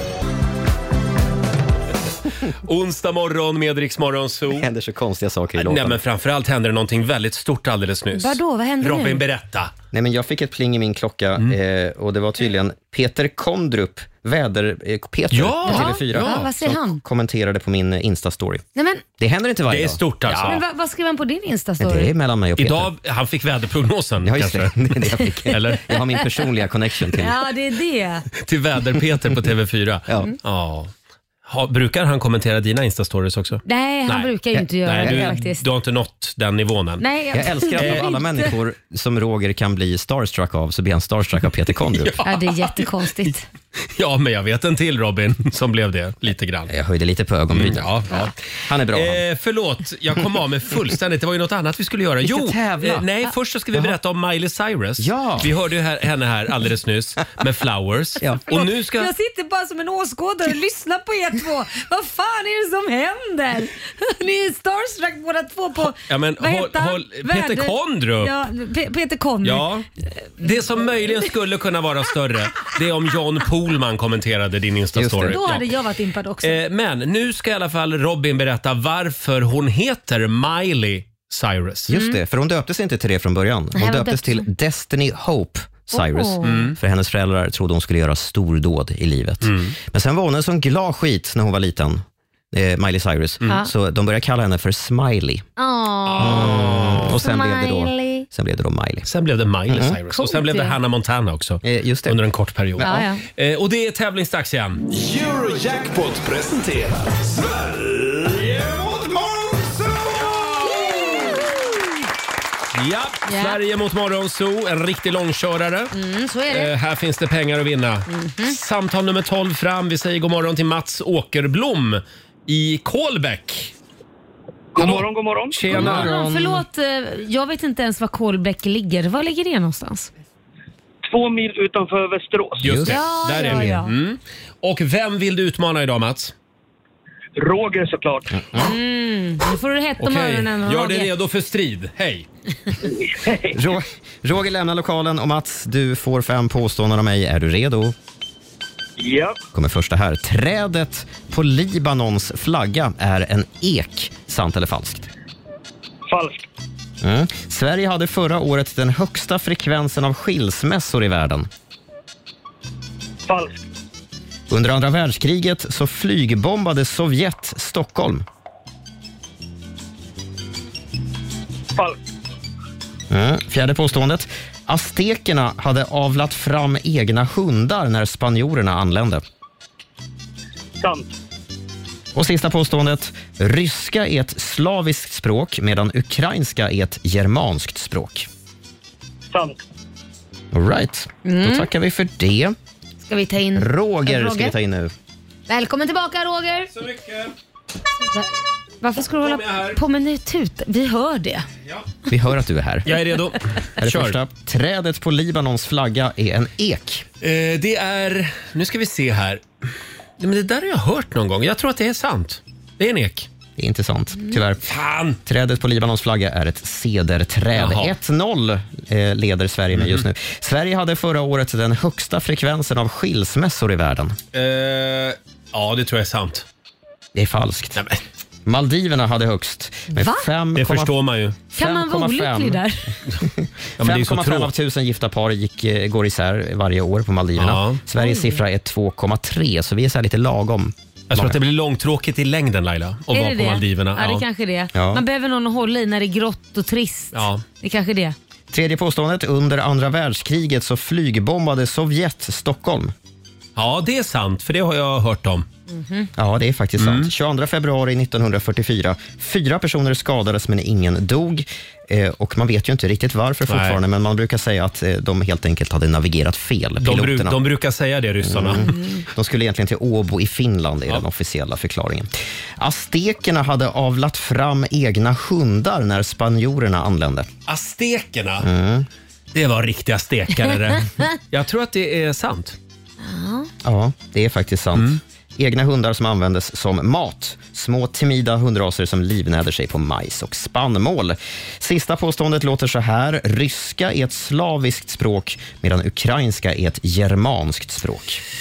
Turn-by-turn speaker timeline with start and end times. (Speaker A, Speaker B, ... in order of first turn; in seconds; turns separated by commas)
Speaker A: 2.5-4.7, Speaker B: 4.5-6.0, Speaker A: 5.6-9.7, Speaker C: 8.1-9.2, Speaker B: 9.9-18.6, Speaker A: 15.3-16.5, Speaker C: 15.7-17.0, Speaker C: 18.8-19.1, Speaker B: 19.2-20.5, Speaker A: 19.7-20.6, Speaker C: 20.4-22.1, Speaker B: 21.8-22.9, Speaker A: 22.6-25.9, Speaker B: 24.2-27.4, Speaker C: 27.1-28.3, Speaker A: 28.4-30.9, Speaker B: 30.1-30.3, Speaker A: 31.5-37.1, Speaker C: 33.6-35.6, Speaker B: 35.0-35.4, Speaker C: 37.0-38.5, Speaker B: 37.3-42.2, Speaker A: 37.8-38.1, Speaker A: 42.0-43.3, Speaker C: 42.2-43.5, Speaker A: 43.9-46.7, Speaker B: 46.7-49.2, Speaker A: 47.5-59.1, Speaker B: 52.2-53.1, Speaker B: 55.0-55.5, Speaker C: 58.5-71.3, Speaker A: 65.9-68.3, Speaker A: 69.4-69.9, Speaker A: 70.4-75.7, Speaker B: 75.0-75.4, Speaker C: 75.3-76.6, Speaker A: 76.4-81.9, Speaker B: 81.9-95.5, Speaker C: 81.9-82.2, Speaker C: 83.8-84.5, Speaker C: 85.9-86.7, Speaker A: 86.4-86.8, Speaker A: 89.4-89.8, Speaker C: 95.6-98.3, Speaker A: 96.1-97.2, Speaker B: 96.2-99.1, Speaker A: 99.1-104.8, Speaker B: 99.7-100.0, Speaker C: 100.1-100.8, Speaker B: 101.6-102.2, Speaker B: 102.8-103.1, Speaker C: 102.8-103.2, Speaker D: 104.9-111.4, Speaker A: 110.2-110.7, Speaker C: 110.6-111.7, Speaker A: 112.7-115.9, Speaker C: 113.3-113.6, Speaker C: 115.9-116.7, Speaker A: 116.5-123.7, Speaker C: 118.1-118.6, Speaker E: 124.7-125.6, Speaker A: 124.8-126.1, Speaker B: 125.7-126.7, Speaker C: 125.7-130.1, Speaker E: 131.0-132.8, Speaker A: 132.6-136.3, Speaker B: 132.6-133.8, Speaker C: 132.8-133.9, Speaker E: 137.4-138.4, Speaker B: 138.3-138.8, Speaker C: 138.6-141.1, Speaker A: 140.0-142.3, Speaker E: 142.8-143.6, Speaker B: 143.5-147.9, Speaker E: 149.0-149.4, Speaker B: 149.5-155.1, Speaker E: 156.1-156.5, Speaker B: 157.0-161.5, Speaker E: 163.3-163.6, Speaker B: 164.5-168.3, Speaker B: 173.1-179.2, Speaker E: 180.8-181.1, Speaker B: 182.2-188.3, Speaker E: 189.3-189.6, Speaker B: 190.5-192.6, Speaker C: 191.2-191.7, Speaker C: 193.1-194.6, Speaker B: 193.6-194.9, Speaker C: 195.5-196.7, Speaker A: 196.7-197.3, Speaker C: 198.0-198.3, Speaker C: 198.8-201.5, Speaker A: 199.2-199.8, Speaker B: 202.1-202.9, Speaker A: 202.9-204.2, Speaker B: 203.8-207.1, Speaker A: 207.2-209.4, Speaker A: 210.2-213.3, Speaker B: 213.6-214.6, Speaker A: 214.7-215.2, Speaker B: 215.2-224.2, Speaker A: 217.5-217.9, Speaker A: 219.7-220.1, Speaker A: 224.3-226.5, Speaker B: 227.1-227.8, Speaker A: 227.8-228.0, Speaker B: 228.5-230.9, Speaker C: 229.9-230.3, Speaker A: 230.5-231.4, Speaker B: 231.5-232.6, Speaker C: 231.6-232.9, Speaker B: 233.2-241.4, Speaker A: 233.8-234.5, Speaker A: 237.4-237.8, Speaker C: 238.0-238.4, Speaker A: 241.1-244.2, Speaker C: 243.1-248.2, Speaker B: 244.7-245.0, Speaker A: 247.1-247.4, Speaker B: 248.5-252.9, Speaker A: 253.6-255.5, Speaker C: 255.7-256.1, Speaker B: 256.2-267.4, Speaker A: 256.8-257.1, Speaker A: 263.5-263.8, Speaker A: 266.8-268.7, Speaker B: 268.2-277.3, Speaker C: 268.6-269.0, Speaker A: 277.5-278.5, Speaker B: 278.4-278.9, Speaker A: 279.3-282.6, Speaker C: 283.0-283.5, Speaker B: 283.6-298.2